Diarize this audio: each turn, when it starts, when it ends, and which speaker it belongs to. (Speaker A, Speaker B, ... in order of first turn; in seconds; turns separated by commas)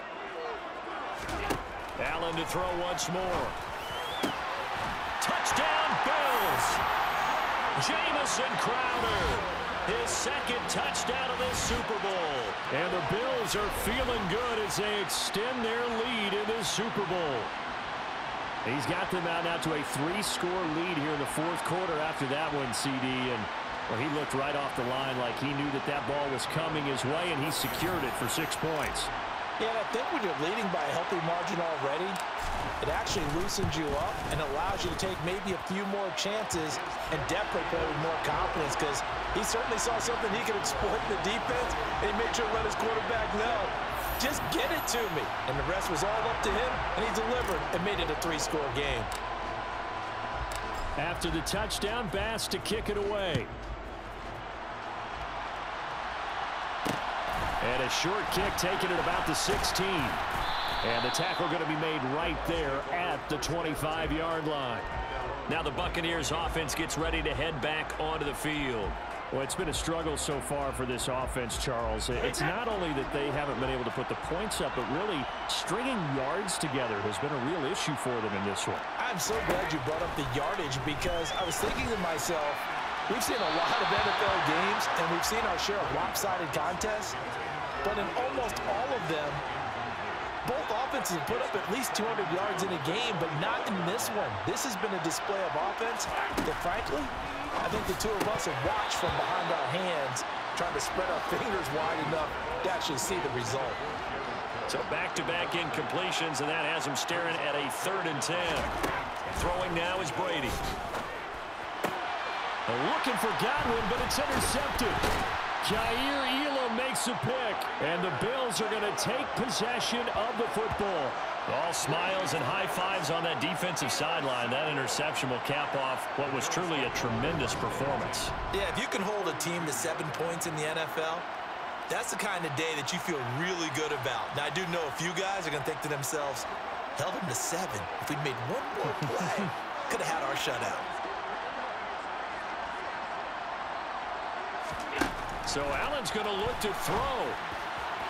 Speaker A: 2.0-3.6, Speaker A: 5.2-6.8, Speaker A: 7.8-17.5, Speaker A: 18.6-29.1, Speaker B: 29.6-32.2, Speaker B: 32.8-49.1, Speaker A: 51.0-53.5, Speaker A: 57.6-60.2, Speaker A: 60.8-64.9, Speaker A: 65.5-78.9, Speaker B: 79.0-87.2, Speaker B: 87.8-89.4, Speaker B: 90.4-103.8, Speaker A: 104.7-108.7, Speaker A: 109.3-110.6, Speaker A: 112.7-115.0, Speaker A: 115.6-128.3, Speaker B: 128.5-131.3, Speaker B: 131.9-140.9, Speaker A: 145.4-147.4